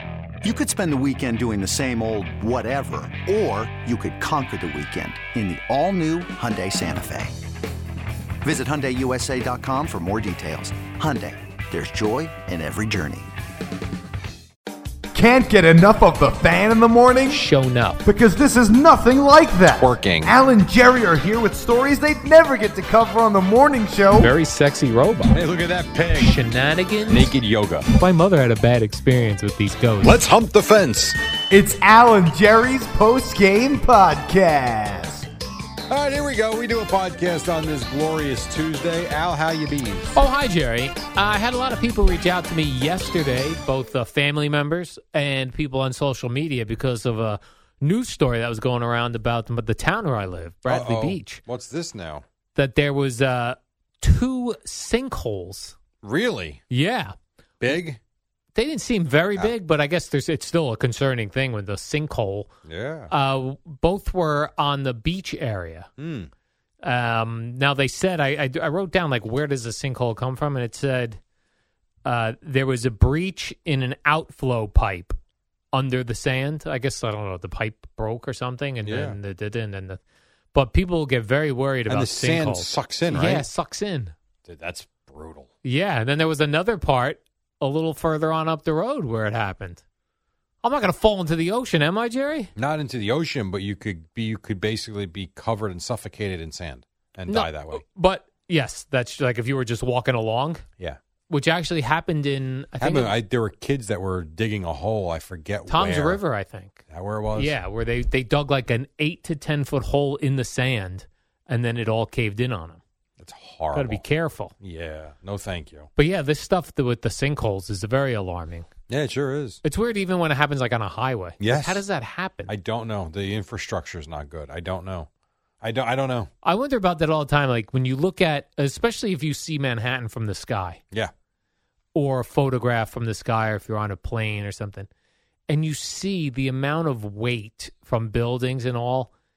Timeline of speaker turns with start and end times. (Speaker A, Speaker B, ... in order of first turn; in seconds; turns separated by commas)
Speaker A: 0.4-7.3, Speaker A: 8.4-13.3, Speaker B: 15.1-17.4, Speaker C: 17.3-18.0, Speaker B: 18.0-24.3, Speaker D: 19.8-20.3, Speaker C: 24.1-25.4, Speaker D: 25.3-26.4, Speaker C: 26.2-27.3, Speaker D: 27.1-27.9, Speaker C: 27.9-30.2, Speaker D: 30.0-31.1, Speaker B: 31.5-35.2, Speaker D: 35.9-40.1, Speaker C: 40.1-51.4, Speaker D: 50.7-52.2, Speaker C: 52.5-55.8, Speaker D: 56.0-56.6, Speaker C: 56.7-57.1, Speaker D: 57.6-58.0, Speaker C: 58.5-62.5, Speaker D: 62.6-63.1, Speaker C: 63.1-65.9, Speaker D: 66.0-66.3, Speaker C: 66.8-71.2, Speaker C: 72.0-75.2, Speaker C: 75.7-80.0, Speaker D: 78.8-79.2, Speaker C: 80.5-84.1, Speaker D: 81.9-83.5, Speaker D: 84.4-85.5, Speaker C: 85.6-89.8, Speaker C: 90.6-92.5, Speaker D: 92.5-97.8, Speaker C: 97.3-100.6, Speaker C: 101.3-103.2, Speaker D: 102.8-106.2, Speaker C: 105.7-106.8, Speaker D: 106.9-107.5, Speaker C: 107.3-112.8, Speaker D: 113.2-114.0, Speaker C: 113.7-114.5, Speaker D: 114.6-115.9, Speaker C: 116.0-118.7, Speaker D: 118.9-119.6, Speaker C: 119.6-122.5, Speaker D: 121.4-121.8, Speaker D: 122.5-125.1, Speaker D: 125.6-126.3, Speaker C: 126.4-130.8, Speaker C: 131.9-134.9, Speaker C: 135.5-139.1